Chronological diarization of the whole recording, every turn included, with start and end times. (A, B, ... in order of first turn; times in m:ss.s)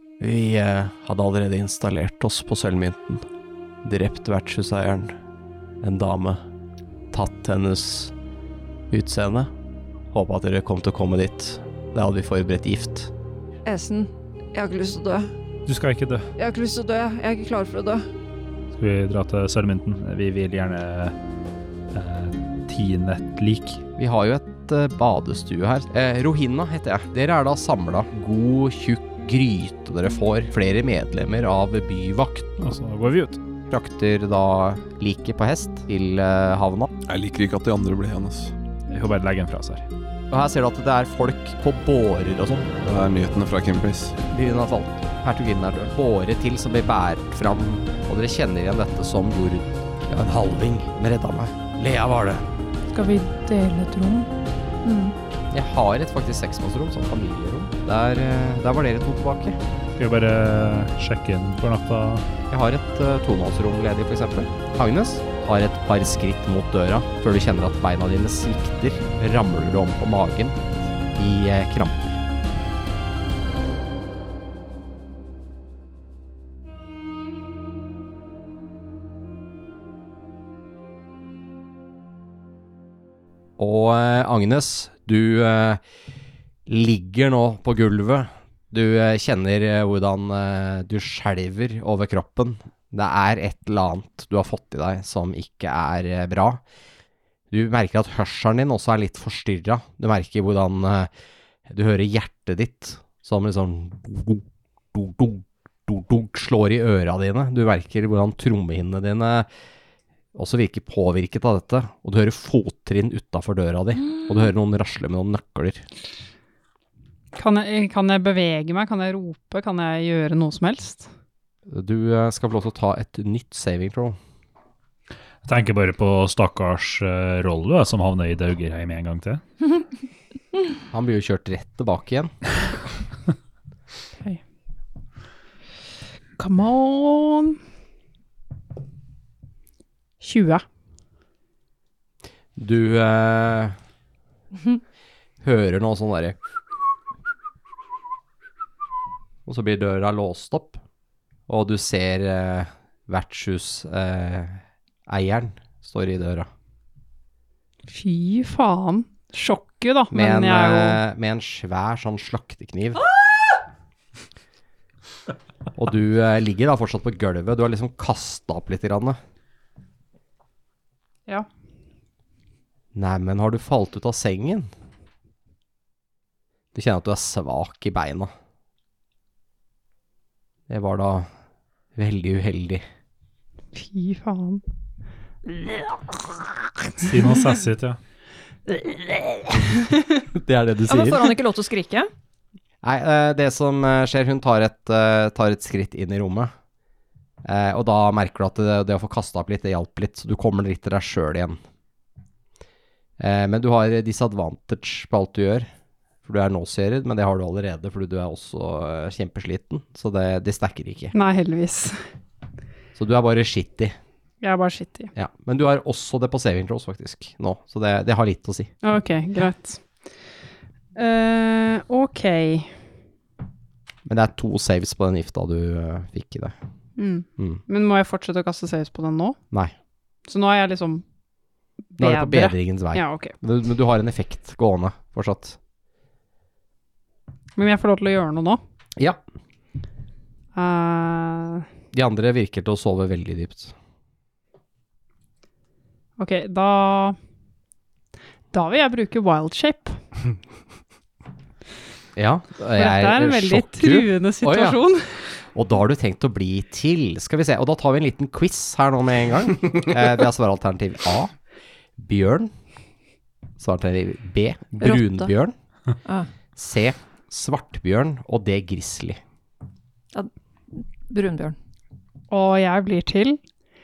0:00.2-0:03.3 A
0:03.8-0:05.2 A
0:05.8-0:06.4 A
0:07.1-0:08.1 A
0:08.9-0:09.5 A
0:10.1-0:13.1 A
0:13.6-0:15.3 B
0:15.7-0:16.3 C
0:16.4-0:18.1 B
0:18.7-0:21.2 C
0:21.9-0:23.8 C
0:24.0-0:32.6 A
0:32.6-0:33.4 C
0:33.7-0:36.9 A
0:37.1-0:38.5 D
0:38.9-0:39.9 C
0:40.3-0:42.7 A
0:42.8-0:44.2 D
0:44.3-0:52.5 A
0:52.9-0:54.3 E
0:54.8-0:55.2 E
0:55.5-0:59.6 A
1:00.0-1:02.2 C
1:02.5-1:10.6 A
1:11.2-1:12.2 A
1:23.6-1:25.8 A
1:26.7-1:36.6 A
1:37.5-1:41.1 A
1:41.7-1:49.5 A
1:50.4-1:55.8 A
1:57.4-2:01.1 E
2:01.7-2:04.2 A
2:05.4-2:09.4 C
2:10.9-2:12.3 A
2:16.4-2:17.6 E
2:20.2-2:20.6 E
2:22.6-2:23.8 A
2:25.4-2:26.4 A
2:29.5-2:30.8 A
2:31.5-2:36.5 A
2:37.9-2:41.0 E
2:40.1-2:43.0 A
2:45.8-2:49.2 A
2:52.9-2:54.7 A
2:56.7-2:58.3 A
3:00.7-3:01.3 A
3:02.0-3:02.8 A
3:03.7-3:04.6 E
3:07.0-3:08.0 C
3:10.3-3:11.4 A
3:10.9-3:12.1 B
3:12.8-3:16.5 A
3:17.4-3:21.6 A
3:23.2-3:25.7 A
3:26.2-3:31.1 A
3:31.1-3:32.0 E
3:33.0-3:34.0 A
3:34.4-3:35.1 E
3:35.2-3:38.7 A
3:38.8-3:39.8 E
3:41.0-3:42.7 E
3:44.1-3:46.6 A
3:47.0-3:49.4 E
3:50.3-3:51.0 E
3:52.0-3:53.3 E
3:52.0-3:55.6 A
3:57.6-3:58.6 E
4:00.6-4:01.7 E
4:01.9-4:03.7 A
4:06.2-4:07.2 E
4:08.5-4:10.0 E
4:12.2-4:14.8 A
4:12.8-4:15.2 E
4:15.5-4:21.3 A
4:22.0-4:22.5 A
4:23.6-4:25.6 A
4:24.8-4:25.3 B
4:26.0-4:26.3 B
4:26.6-4:29.2 A
4:30.1-4:31.6 B
4:32.3-4:33.4 E